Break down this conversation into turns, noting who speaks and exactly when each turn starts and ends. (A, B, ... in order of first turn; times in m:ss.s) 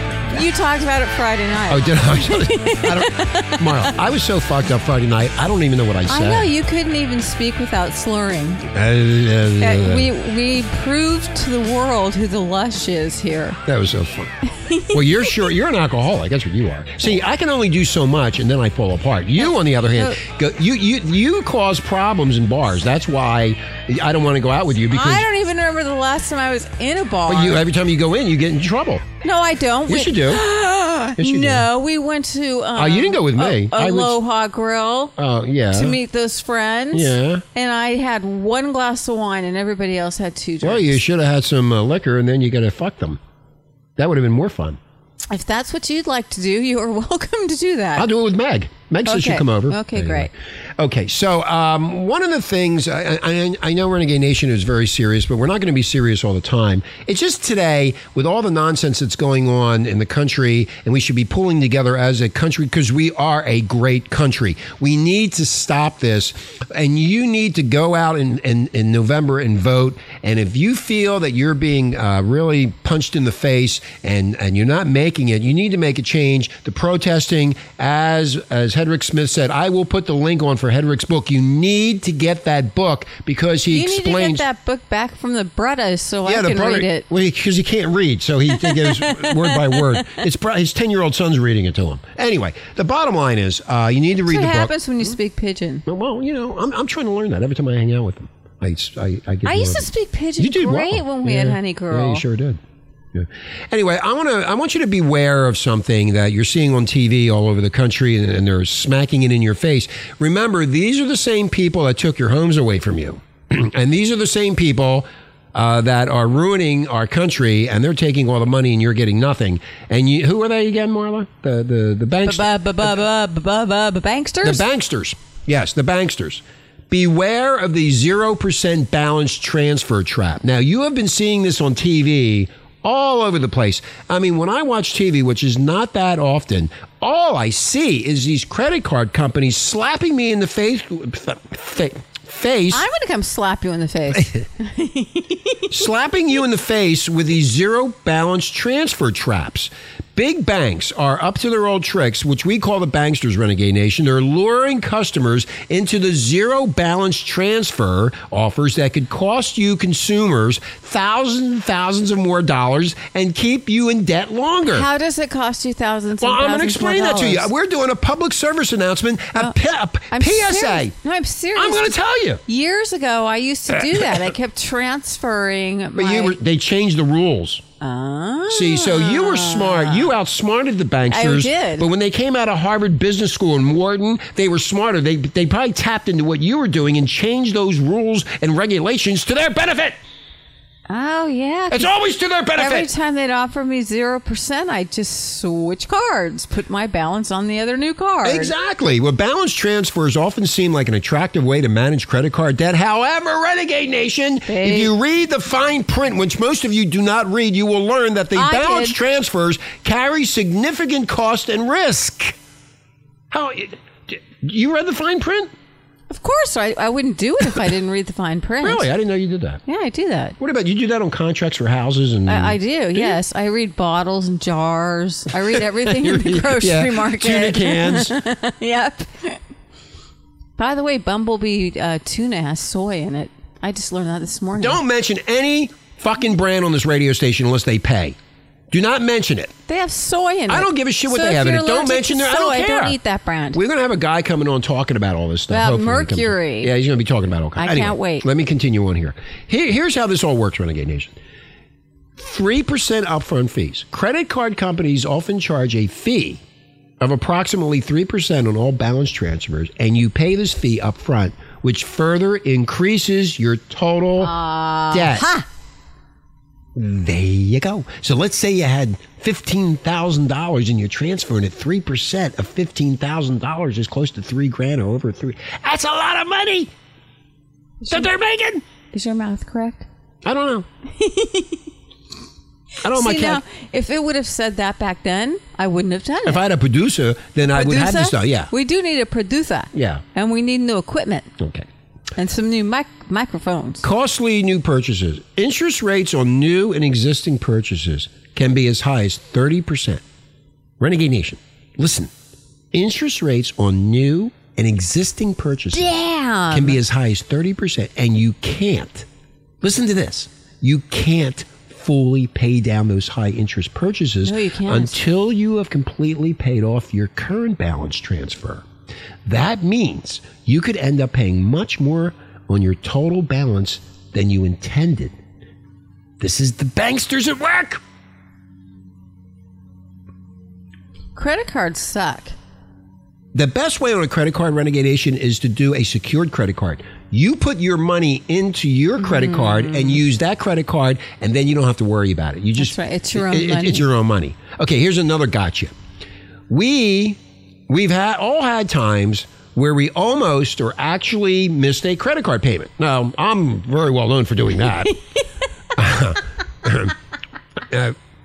0:00.3-0:03.9 A
0:01.7-0:06.5 B
0:06.1-0:08.6 A
0:08.7-0:10.1 B
0:09.6-0:13.6 A
0:13.6-0:14.3 B
0:14.6-0:15.0 A
0:14.9-0:25.3 B
0:19.4-0:20.2 A
0:24.9-0:27.6 A
0:27.3-0:29.1 B
0:29.2-0:35.1 A
0:29.9-0:30.4 B
0:31.2-0:31.7 B
0:32.8-0:34.2 B
0:35.2-0:36.0 B
0:35.7-0:41.0 A
0:36.9-0:37.4 B
0:40.6-0:43.2 B
0:44.0-0:44.8 B
0:45.3-0:48.1 A
0:48.0-1:24.4 B
0:49.1-0:50.3 A
1:23.7-1:27.0 A
1:26.3-1:34.7 B
1:28.6-1:29.5 A
1:34.3-1:35.8 A
1:35.9-1:42.6 B
1:39.4-1:42.2 A
1:43.1-2:02.5 B
2:02.2-2:04.6 A
2:04.4-2:22.9 B
2:22.7-2:25.6 A
2:24.1-2:24.4 B
2:25.7-2:44.9 B
2:44.7-2:47.5 A
2:46.2-2:51.0 B
2:50.1-2:51.9 A
2:51.6-2:52.4 B
2:52.5-2:56.4 A
2:53.7-2:54.3 B
2:56.0-2:57.6 B
2:57.8-3:00.1 A
2:58.5-3:10.0 B
3:01.1-3:01.9 A
3:10.9-3:11.9 A
3:11.7-3:12.9 B
3:12.6-3:18.5 A
3:18.2-3:32.4 B
3:24.5-3:24.9 A
3:28.4-3:29.0 A
3:33.3-3:35.5 B
3:36.1-3:38.9 A
3:38.6-3:39.6 B
3:39.7-3:40.4 A
3:40.4-3:43.2 B
3:42.3-3:49.4 A
3:45.4-3:48.2 B
3:50.6-3:54.8 A
3:54.6-3:58.2 B
3:58.7-3:59.5 B
3:59.7-4:03.6 A
4:00.5-4:03.0 B
4:03.5-4:11.2 B
4:05.5-4:06.7 A
4:07.6-4:08.2 A
4:12.2-4:16.4 B
4:17.0-4:24.3 B
4:24.2-4:25.5 A
4:24.9-4:25.3 B
4:26.8-4:36.7 B
4:37.8-4:38.1 A
4:37.9-4:38.6 B
4:38.9-4:39.9 A
4:40.2-4:40.7 B
4:41.0-4:41.6 A
4:42.8-4:43.4 B
4:42.9-4:46.4 A
4:46.2-4:48.5 B
4:47.5-4:51.3 A
4:49.7-4:50.0 B
4:51.4-4:51.7 B
4:52.2-4:53.8 A
4:53.8-5:00.0 B
5:00.8-5:02.1 B
5:02.7-5:05.9 B
5:05.7-5:06.8 A
5:06.5-5:09.1 B
5:09.6-5:18.7 B
5:14.2-5:15.0 A
5:19.2-5:25.2 B
5:26.2-5:27.8 B
5:31.2-5:32.4 A
5:33.3-5:45.7 B
5:39.0-5:40.0 A
5:42.6-5:43.9 A
5:46.5-5:55.0 B
5:55.8-5:57.0 B
5:57.7-5:58.0 B